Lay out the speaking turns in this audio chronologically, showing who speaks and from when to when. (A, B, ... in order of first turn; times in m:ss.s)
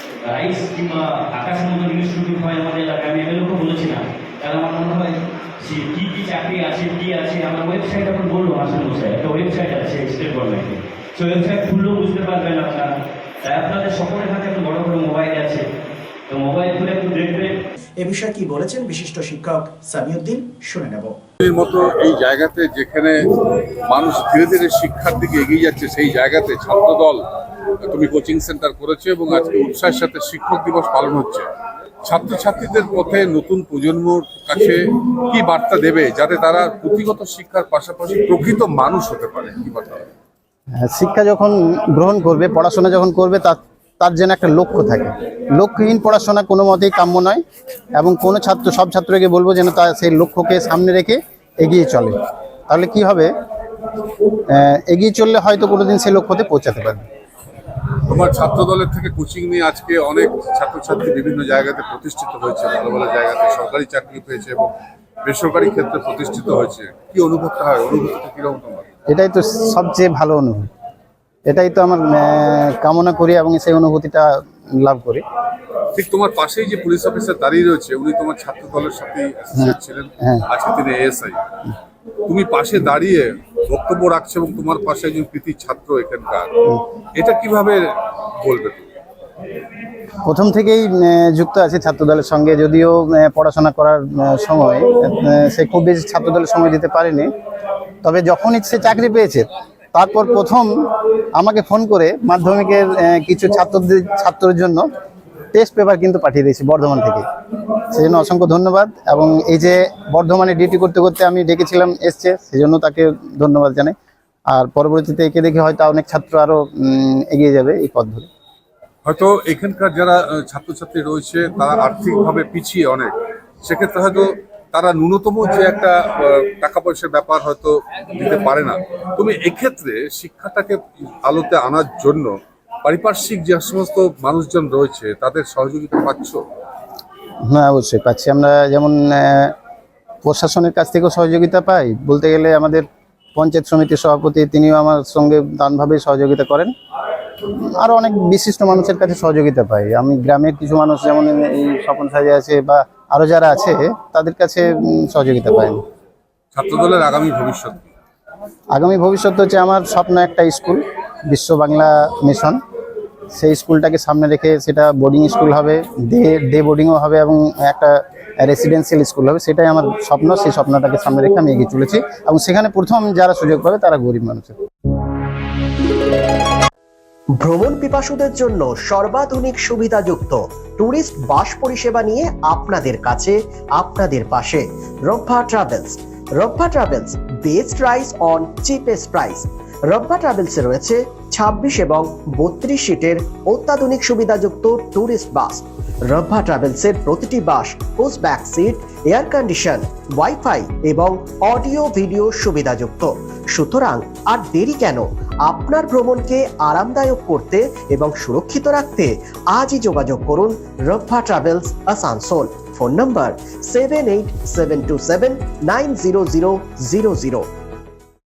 0:00.3-0:15.7 A
0:16.3-0:17.6 A
0:18.0-0:21.1 B
0:21.4-0:27.2 C
0:27.8-0:31.5 C
0:32.0-0:40.1 C
0:40.8-0:47.4 D
0:48.0-0:52.2 D
0:52.7-0:53.3 D
0:54.5-0:57.1 D
0:58.1-1:04.7 C
1:05.2-1:08.9 C
1:09.1-1:10.7 D
1:11.5-1:15.2 D
1:15.9-1:21.5 C
1:19.6-1:20.4 D
1:22.3-1:26.5 C
1:27.1-1:27.9 C
1:28.4-1:28.9 C
1:30.3-1:37.3 D
1:38.0-1:40.7 D
1:41.4-1:44.8 D
1:45.5-1:47.3 D
1:47.9-1:53.9 D
1:54.5-1:58.3 D
1:59.0-2:16.4 C
2:17.5-2:19.5 D
2:20.2-2:26.7 D
2:27.8-2:35.8 D
2:36.5-2:37.8 C
2:38.8-2:42.6 D
2:43.3-2:54.6 D
2:57.4-3:37.5 E